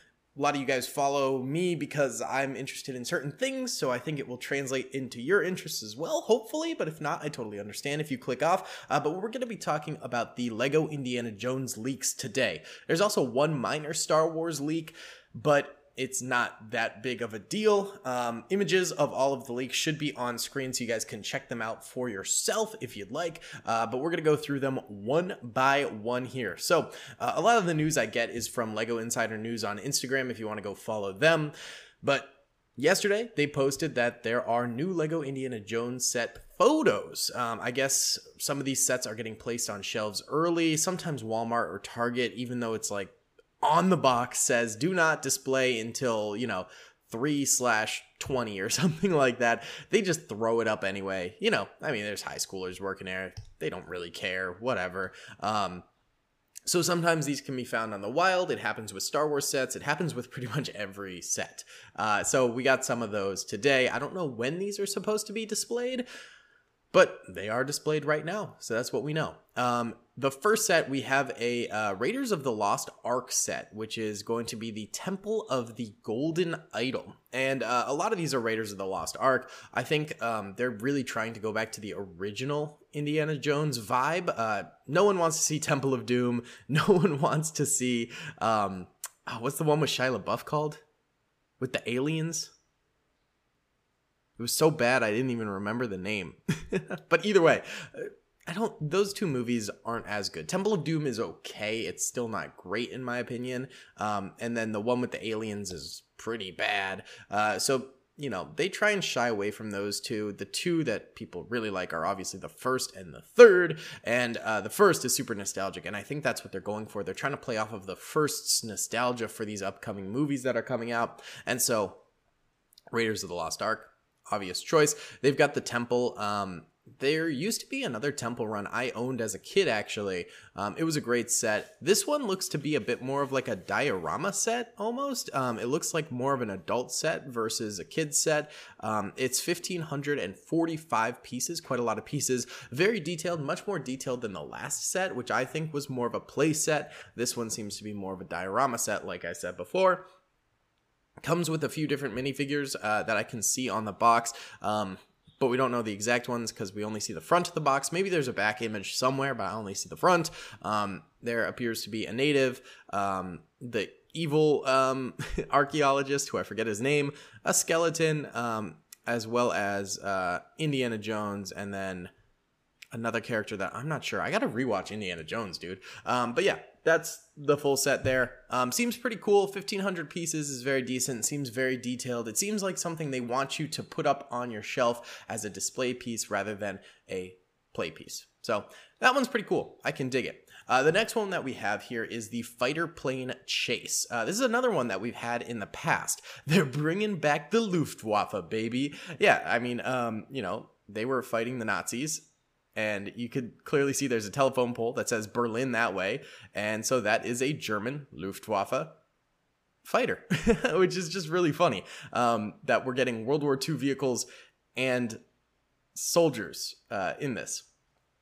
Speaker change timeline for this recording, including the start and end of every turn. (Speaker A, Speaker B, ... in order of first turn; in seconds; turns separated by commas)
Speaker A: 0.3-55.8, Speaker A: 56.7-66.0, Speaker A: 66.9-90.8, Speaker A: 91.6-92.5, Speaker A: 94.4-122.0, Speaker A: 122.9-150.0, Speaker A: 151.2-172.1, Speaker A: 172.9-208.9, Speaker A: 209.8-215.2, Speaker A: 215.9-217.7